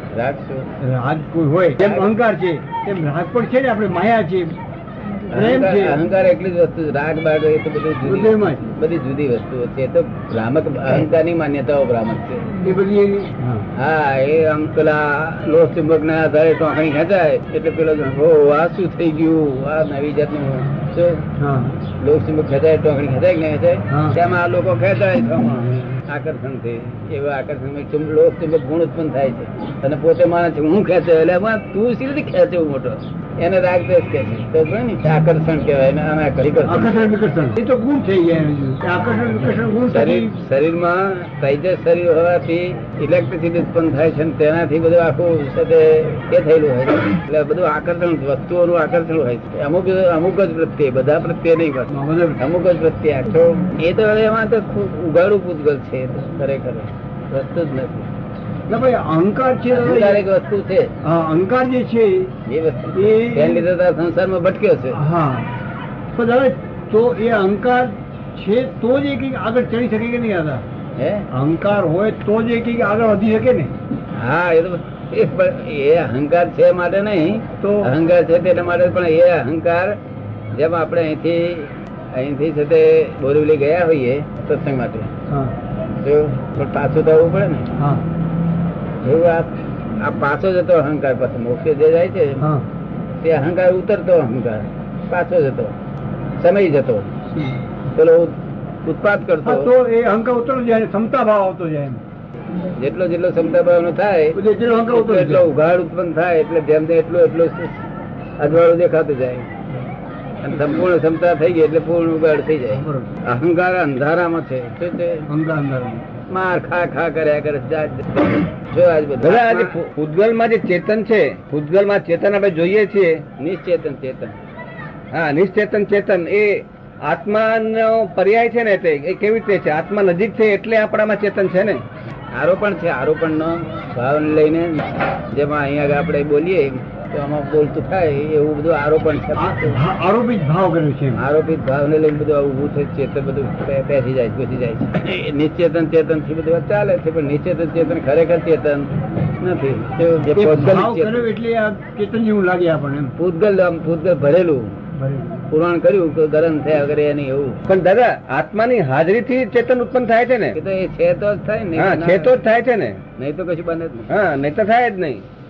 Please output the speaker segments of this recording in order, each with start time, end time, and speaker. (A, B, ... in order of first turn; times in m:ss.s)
0:00.1-0:00.7 A
0:00.8-0:04.6 B
0:01.8-0:02.1 A
0:05.3-0:12.5 A
0:05.3-0:06.0 B
0:08.0-0:08.6 B
0:12.6-0:13.7 B
0:13.8-0:21.2 A
0:21.4-0:21.8 B
0:22.0-0:37.1 A
0:23.9-0:24.2 B
0:36.6-0:40.3 B
0:39.9-0:58.1 A
0:51.9-0:52.4 B
0:58.7-1:00.3 B
0:59.7-1:00.9 A
1:01.0-1:02.3 B
1:02.5-1:05.0 A
1:03.0-1:03.6 B
1:04.9-1:05.5 B
1:06.1-1:10.6 B
1:11.0-1:11.3 A
1:11.3-1:13.7 B
1:14.1-1:20.0 A
1:17.6-1:17.9 B
1:20.5-1:25.1 A
1:25.3-1:25.6 B
1:26.0-1:27.7 A
1:27.8-1:28.0 B
1:29.0-1:32.5 A
1:32.4-1:32.7 B
1:33.2-1:35.7 A
1:36.4-1:37.1 A
1:37.9-1:39.7 A
1:39.4-1:42.0 B
1:42.7-1:47.8 A
1:44.3-1:45.5 B
1:48.4-1:49.5 A
1:50.4-1:55.3 A
1:52.7-1:53.1 B
1:55.3-1:56.0 B
1:56.3-1:59.8 A
1:59.2-2:03.1 C
2:03.4-2:04.4 A
2:05.1-2:11.8 C
2:12.3-2:19.8 A
2:19.4-2:21.2 B
2:21.2-2:31.3 A
2:30.3-2:33.1 B
2:33.2-2:34.8 A
2:35.0-2:35.4 B
2:35.5-2:37.6 A
2:37.7-2:40.6 C
2:40.6-2:42.4 A
2:41.8-2:43.0 C
2:43.2-2:44.1 A
2:44.1-2:45.2 C